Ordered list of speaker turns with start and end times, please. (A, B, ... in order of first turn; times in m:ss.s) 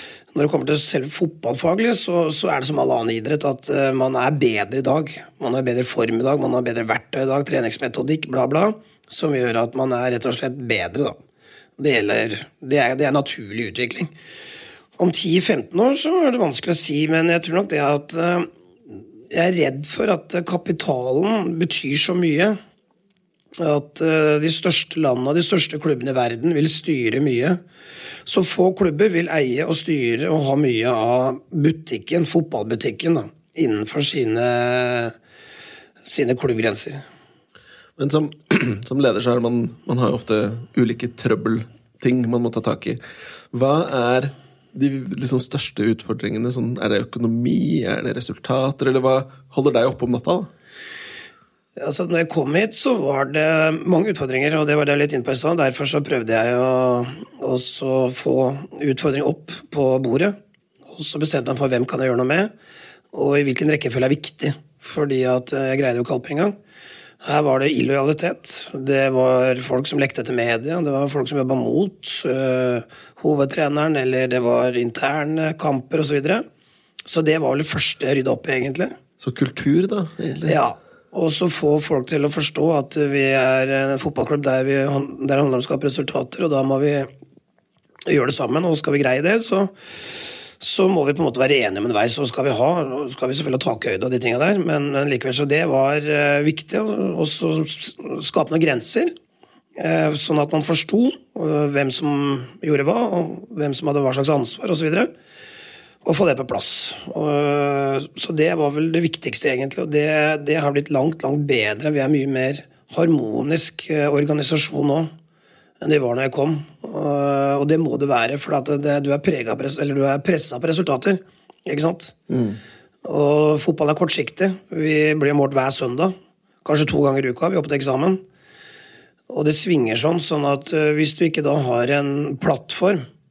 0:00.3-0:11.2 A
0:11.8-0:14.1 A
0:15.0-0:22.6 A
0:23.6-0:27.6 A
0:28.2-0:35.1 A
0:36.0-0:37.0 A
0:38.0-0:43.0 B
0:43.5-0:50.5 B
0:51.8-1:00.4 A
1:00.9-1:02.5 A
1:03.1-1:06.5 A
1:07.2-1:16.4 A
1:17.0-1:18.9 A
1:19.2-1:20.6 B
1:20.4-1:27.1 A
1:28.0-1:29.7 A
1:30.6-1:39.1 A
1:39.8-1:45.1 A
1:46.0-1:55.1 A
1:55.8-2:02.2 A
2:02.3-2:02.6 B
2:03.0-2:08.2 A
2:09.3-2:13.0 A